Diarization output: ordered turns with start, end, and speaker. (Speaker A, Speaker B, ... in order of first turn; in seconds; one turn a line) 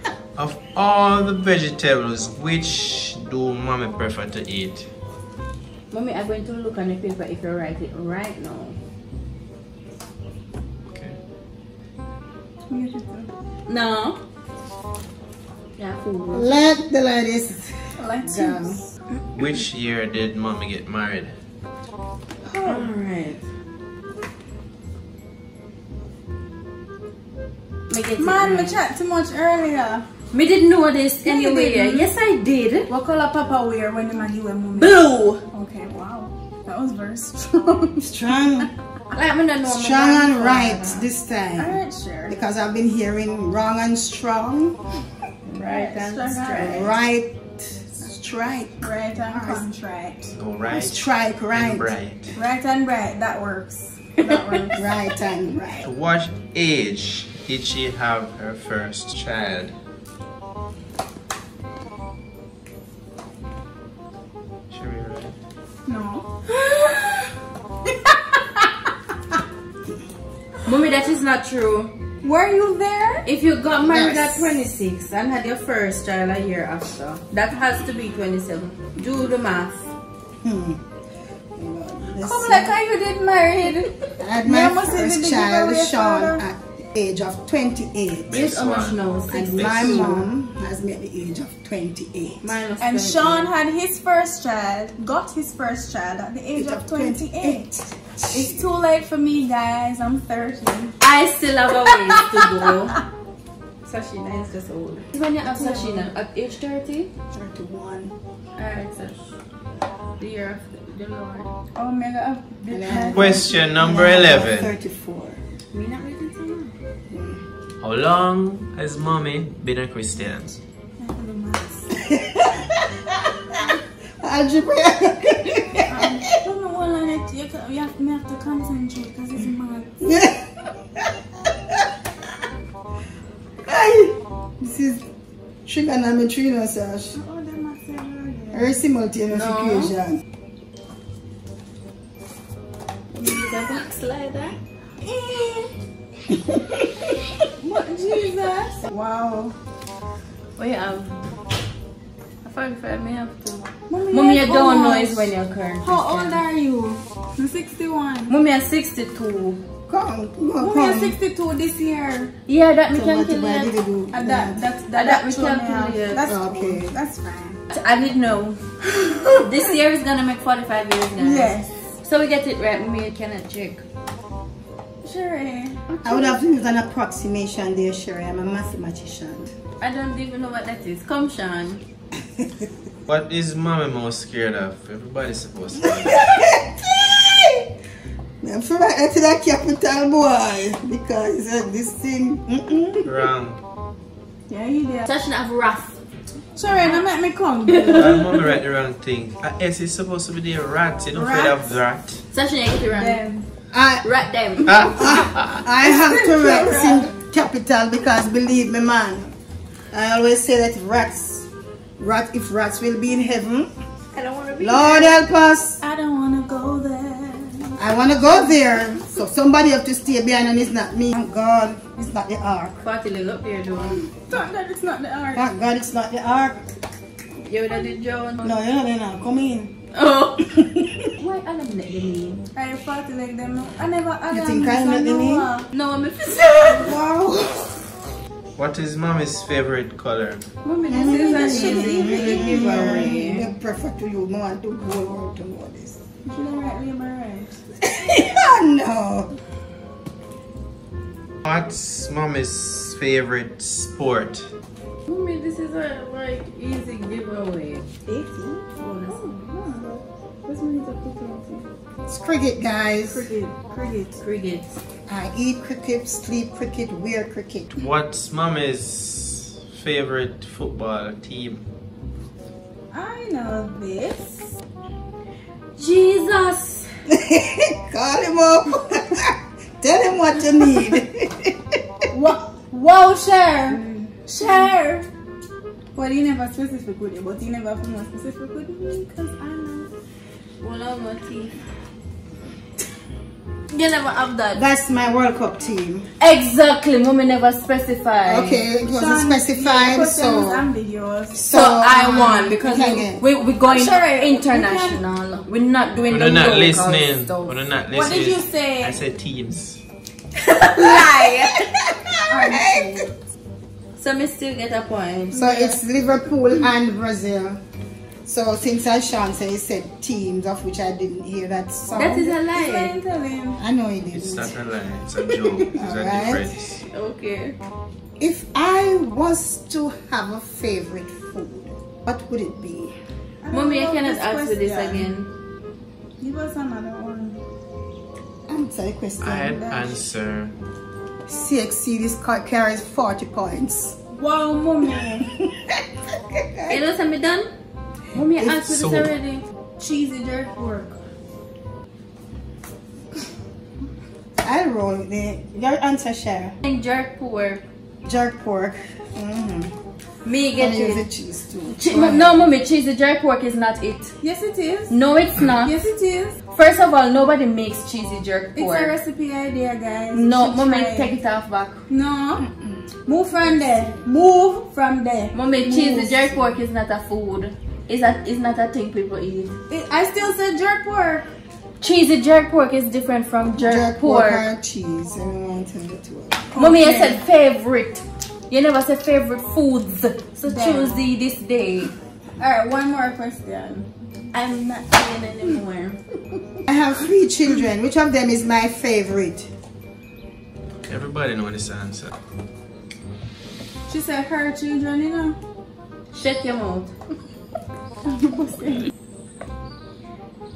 Speaker A: 0.4-4.9
Speaker B: 5.9-8.8
Speaker A: 10.9-11.2
Speaker C: 12.7-13.3
Speaker B: 13.7-14.2
Speaker B: 15.8-16.6
Speaker D: 16.3-18.8
Speaker C: 18.0-19.0
Speaker A: 19.3-21.4
Speaker C: 22.4-22.9
Speaker B: 22.6-23.4
Speaker B: 27.9-28.8
Speaker C: 28.2-30.1
Speaker B: 30.3-32.9
Speaker C: 31.2-32.1
Speaker C: 32.9-38.7
Speaker B: 34.8-35.4
Speaker D: 38.0-38.7
Speaker B: 39.1-41.1
Speaker D: 39.6-44.8
Speaker C: 41.6-42.4
Speaker B: 45.5-46.9
Speaker C: 45.6-46.9
Speaker D: 46.6-49.7
Speaker C: 48.8-50.3
Speaker A: 50.3-52.3
Speaker D: 50.7-51.9
Speaker C: 52.3-54.9
Speaker D: 54.8-55.9
Speaker A: 55.8-59.8
Speaker A: 64.7-65.3
Speaker C: 65.9-66.9
Speaker B: 70.7-72.0
Speaker C: 72.2-73.3
Speaker B: 73.2-79.9
Speaker D: 73.8-74.6
Speaker D: 80.4-80.8
Speaker D: 81.6-82.7
Speaker C: 82.2-83.9
Speaker D: 84.2-88.4
Speaker C: 84.4-86.4
Speaker A: 88.3-90.1
Speaker B: 88.3-90.2
Speaker D: 89.3-92.5
Speaker B: 92.4-93.5
Speaker C: 92.8-97.7
Speaker D: 96.5-98.8
Speaker C: 98.3-101.0
Speaker B: 101.0-103.0
Speaker C: 101.8-102.7
Speaker B: 103.8-107.1
Speaker C: 105.6-106.1
Speaker D: 107.3-108.1
Speaker B: 108.6-109.3
Speaker B: 110.2-111.5
Speaker C: 111.8-113.6
Speaker B: 112.6-113.4
Speaker D: 112.7-115.4
Speaker A: 113.1-114.7
Speaker B: 115.7-116.7
Speaker D: 117.1-117.4
Speaker A: 117.8-120.6
Speaker C: 121.0-121.9
Speaker D: 122.0-126.2
Speaker C: 125.9-129.9
Speaker D: 130.0-131.8
Speaker D: 133.7-135.0
Speaker D: 135.7-137.2
Speaker C: 137.1-138.8
Speaker D: 138.5-140.2
Speaker B: 139.3-139.9
Speaker B: 143.1-144.6
Speaker C: 145.0-145.7
Speaker D: 146.5-146.8
Speaker C: 147.6-149.6
Speaker B: 150.6-151.2
Speaker B: 152.4-156.4
Speaker C: 153.9-158.3
Speaker B: 158.3-159.6
Speaker D: 159.9-161.2
Speaker C: 160.6-162.3
Speaker B: 162.5-163.7
Speaker D: 162.9-164.7
Speaker C: 164.1-167.6
Speaker B: 164.9-166.3
Speaker D: 166.2-167.0
Speaker B: 167.7-168.6
Speaker C: 169.0-169.4
Speaker B: 169.4-173.8
Speaker C: 171.2-171.8
Speaker C: 175.0-175.8
Speaker D: 176.0-179.5
Speaker B: 179.8-181.8
Speaker D: 182.4-182.7
Speaker A: 183.1-186.2
Speaker D: 185.9-187.7
Speaker D: 188.4-193.1
Speaker A: 193.1-193.6
Speaker C: 194.5-195.1
Speaker B: 195.1-196.0
Speaker C: 196.6-198.3
Speaker B: 197.8-198.3
Speaker A: 197.9-202.2
Speaker C: 201.1-201.8
Speaker B: 202.3-203.2
Speaker C: 202.9-203.5
Speaker D: 203.7-204.1
Speaker B: 204.0-205.3
Speaker D: 204.7-209.3
Speaker A: 204.8-205.6
Speaker C: 205.8-207.1
Speaker D: 209.9-213.7
Speaker B: 214.1-215.1
Speaker D: 214.6-215.8
Speaker C: 215.8-219.1
Speaker D: 217.8-222.8
Speaker B: 222.8-224.1
Speaker C: 224.1-225.5
Speaker D: 225.3-226.7
Speaker B: 227.4-228.6
Speaker D: 228.4-229.8
Speaker B: 229.9-230.5
Speaker D: 230.4-231.0
Speaker B: 231.2-232.5
Speaker C: 232.5-235.7
Speaker D: 234.3-235.5
Speaker B: 235.7-236.9
Speaker D: 236.8-237.7
Speaker A: 238.6-240.4
Speaker B: 240.6-243.5
Speaker D: 240.9-246.0
Speaker C: 241.1-243.2
Speaker C: 246.2-247.6
Speaker D: 247.8-249.3
Speaker A: 251.5-254.5
Speaker B: 255.1-257.8
Speaker C: 258.1-261.7
Speaker B: 258.8-259.2
Speaker D: 262.1-263.3
Speaker C: 263.1-264.2
Speaker B: 264.2-264.8
Speaker D: 265.1-267.8
Speaker A: 267.8-271.6
Speaker C: 272.9-274.5
Speaker B: 275.8-276.9
Speaker D: 277.1-281.6
Speaker C: 282.1-285.1
Speaker B: 283.7-284.5
Speaker C: 285.9-289.9
Speaker B: 290.6-291.6
Speaker B: 293.7-294.6
Speaker D: 294.5-296.1
Speaker B: 296.2-298.6
Speaker D: 298.2-300.7
Speaker C: 298.9-301.5
Speaker D: 301.3-303.2
Speaker B: 301.5-307.6
Speaker C: 302.1-302.5
Speaker C: 303.6-305.0
Speaker A: 306.1-309.8
Speaker C: 307.9-309.0
Speaker B: 310.4-311.7
Speaker D: 311.9-313.1
Speaker C: 312.3-313.1
Speaker B: 314.0-315.4
Speaker C: 315.3-315.8
Speaker D: 315.4-317.6
Speaker D: 318.2-322.4
Speaker B: 321.9-323.0
Speaker C: 322.5-323.6
Speaker D: 323.6-324.6
Speaker A: 324.1-326.8
Speaker D: 325.8-326.5
Speaker B: 326.9-327.6
Speaker D: 328.2-332.9
Speaker C: 333.4-335.1
Speaker B: 333.5-335.3
Speaker C: 336.2-337.4
Speaker D: 338.5-339.5
Speaker A: 339.2-340.6
Speaker C: 339.3-340.0
Speaker D: 341.3-344.0
Speaker C: 344.1-345.3
Speaker D: 345.4-346.8
Speaker B: 346.7-347.5
Speaker B: 348.1-349.4
Speaker A: 348.6-349.1
Speaker C: 349.8-351.0
Speaker D: 354.4-356.6
Speaker B: 356.6-357.6
Speaker D: 358.1-359.7
Speaker B: 360.2-361.1
Speaker D: 360.6-362.4
Speaker B: 361.7-364.1
Speaker C: 364.2-365.0
Speaker B: 364.9-365.8
Speaker C: 365.6-366.4
Speaker B: 366.5-368.9
Speaker C: 368.6-371.1
Speaker B: 370.1-371.8
Speaker C: 371.9-372.4
Speaker C: 373.1-376.3
Speaker B: 375.3-379.6
Speaker C: 379.7-381.3
Speaker B: 381.8-384.4
Speaker D: 383.6-386.5
Speaker C: 386.5-387.2
Speaker B: 386.6-391.9
Speaker C: 390.4-391.0
Speaker C: 392.4-393.9
Speaker B: 394.3-396.0
Speaker C: 394.6-394.9
Speaker D: 396.7-399.5
Speaker A: 400.8-402.1
Speaker C: 403.9-405.4
Speaker B: 406.1-406.9
Speaker C: 408.0-408.9